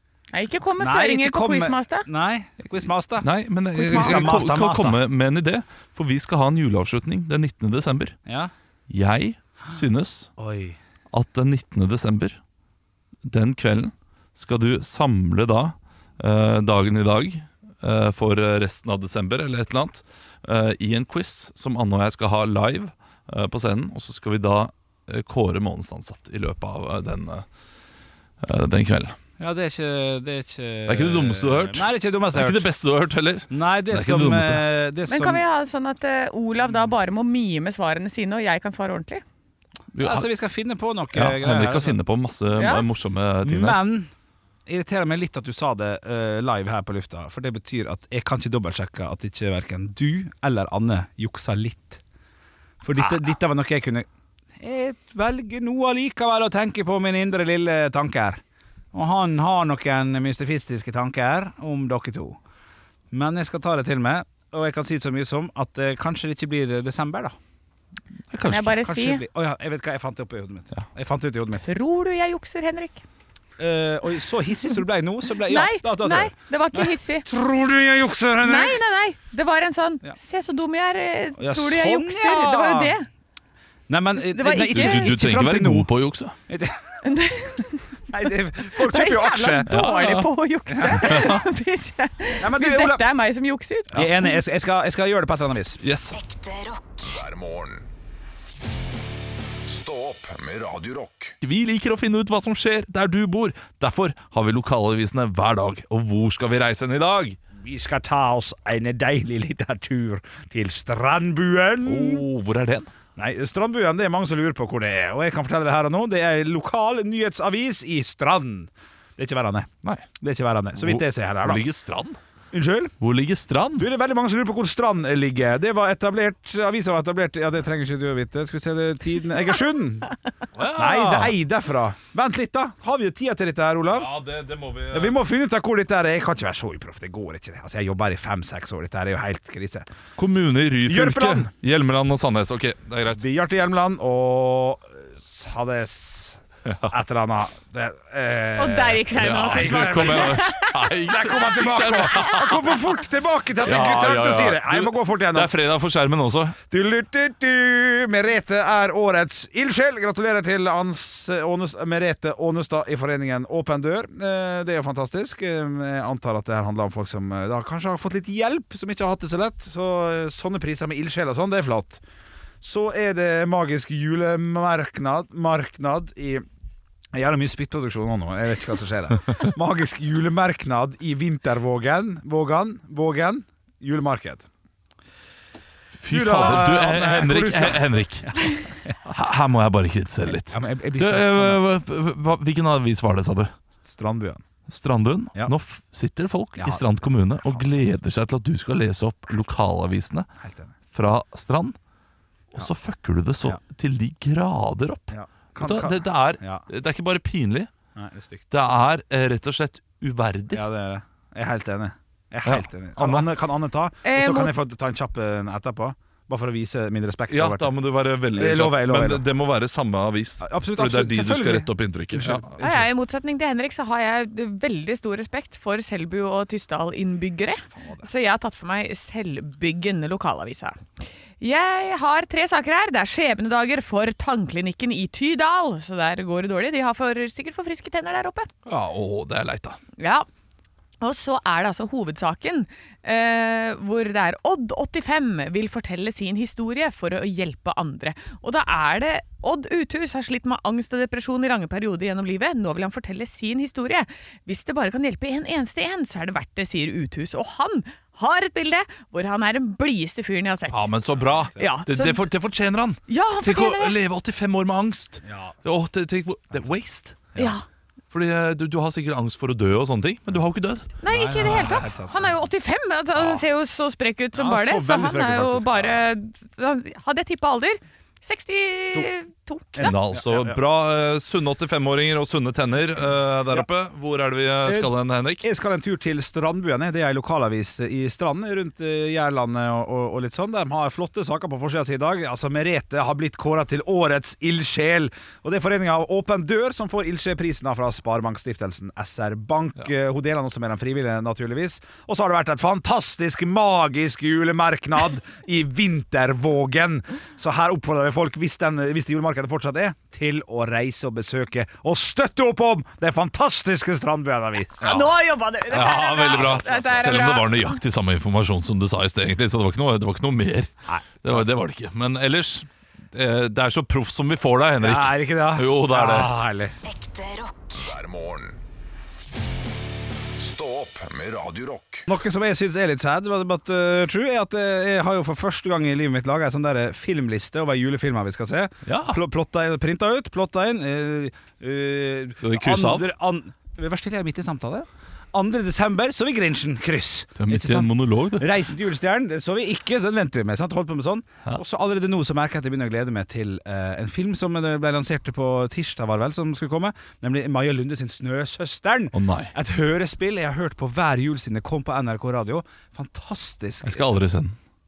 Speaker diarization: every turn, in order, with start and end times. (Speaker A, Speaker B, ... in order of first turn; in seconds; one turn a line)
Speaker A: 0.3-2.1
Speaker B: 0.8-3.3
Speaker C: 3.2-8.2
Speaker A: 3.8-4.2
Speaker B: 3.8-5.0
Speaker B: 8.2-8.5
Speaker C: 8.9-10.3
Speaker B: 10.4-10.8
Speaker C: 11.1-12.4
Speaker C: 13.2-27.4
Speaker C: 28.4-29.1
Speaker B: 29.4-32.6
Speaker C: 30.9-34.6
Speaker B: 33.5-35.4
Speaker A: 35.1-39.2
Speaker C: 39.9-40.3
Speaker B: 40.0-42.0
Speaker C: 41.1-43.8
Speaker A: 42.6-42.8
Speaker B: 43.4-44.1
Speaker B: 44.7-52.0
Speaker B: 52.8-54.1
Speaker B: 54.6-58.4
Speaker B: 58.9-62.4
Speaker B: 63.1-67.4
Speaker C: 68.3-68.8
Speaker A: 68.5-69.2
Speaker B: 68.8-71.6
Speaker A: 71.6-73.0
Speaker B: 73.6-78.8
Speaker A: 75.5-77.3
Speaker A: 78.4-83.1
Speaker B: 81.4-82.9
Speaker B: 83.9-85.9
Speaker A: 84.2-85.2
Speaker C: 84.7-86.3
Speaker B: 86.5-86.7
Speaker A: 87.0-88.0
Speaker B: 88.1-89.7
Speaker A: 88.6-94.4
Speaker C: 89.7-90.3
Speaker B: 90.7-91.3
Speaker C: 90.9-91.4
Speaker B: 92.4-93.0
Speaker B: 93.9-95.8
Speaker C: 95.8-96.2
Speaker D: 96.2-97.9
Speaker D: 99.6-101.4
Speaker C: 101.4-107.4
Speaker B: 107.5-112.2
Speaker C: 111.8-112.9
Speaker B: 113.2-121.6
Speaker C: 120.8-122.2
Speaker B: 122.5-123.0
Speaker C: 123.0-123.9
Speaker B: 123.8-130.1
Speaker C: 130.5-131.4
Speaker B: 130.7-134.1
Speaker C: 133.9-135.2
Speaker B: 134.9-139.9
Speaker C: 140.2-143.2
Speaker B: 140.8-141.5
Speaker B: 143.1-155.5
Speaker A: 148.6-150.9
Speaker C: 149.2-152.8
Speaker C: 153.6-156.6
Speaker B: 156.7-172.0
Speaker B: 172.6-176.4
Speaker B: 177.1-184.5
Speaker C: 186.0-188.4
Speaker B: 186.1-188.9
Speaker C: 189.1-193.5
Speaker B: 190.2-191.6
Speaker B: 193.8-194.4
Speaker C: 194.7-200.3
Speaker B: 196.6-196.8
Speaker B: 197.4-197.9
Speaker B: 200.4-200.8
Speaker C: 200.9-201.8
Speaker C: 202.5-207.7
Speaker B: 205.1-206.7
Speaker B: 207.9-208.4
Speaker C: 208.5-210.6
Speaker B: 210.5-217.7
Speaker C: 212.4-213.3
Speaker A: 214.0-214.5
Speaker C: 217.3-222.6
Speaker B: 218.3-219.2
Speaker B: 220.4-222.8
Speaker A: 222.6-230.8
Speaker B: 227.8-228.1
Speaker A: 231.4-238.5
Speaker C: 238.7-239.8
Speaker A: 240.0-240.2
Speaker A: 241.0-260.9
Speaker C: 260.7-267.3
Speaker A: 261.5-262.2
Speaker A: 263.1-264.0
Speaker B: 265.2-265.6
Speaker A: 267.4-267.6
Speaker C: 268.1-270.9
Speaker A: 271.0-279.9
Speaker B: 271.1-272.3
Speaker B: 274.3-276.0
Speaker B: 279.8-280.6
Speaker C: 279.8-285.4
Speaker B: 284.6-315.0
Speaker A: 314.8-317.8
Speaker C: 314.8-315.1
Speaker C: 315.7-320.7
Speaker B: 316.4-316.9
Speaker B: 320.9-321.4
Speaker C: 321.2-326.3
Speaker B: 324.8-326.8
Speaker D: 326.9-328.6
Speaker D: 330.3-332.1
Speaker B: 332.1-364.1
Speaker C: 338.9-339.2
Speaker C: 342.4-343.1
Speaker C: 347.4-348.5
Speaker C: 359.1-359.5
Speaker C: 363.8-364.6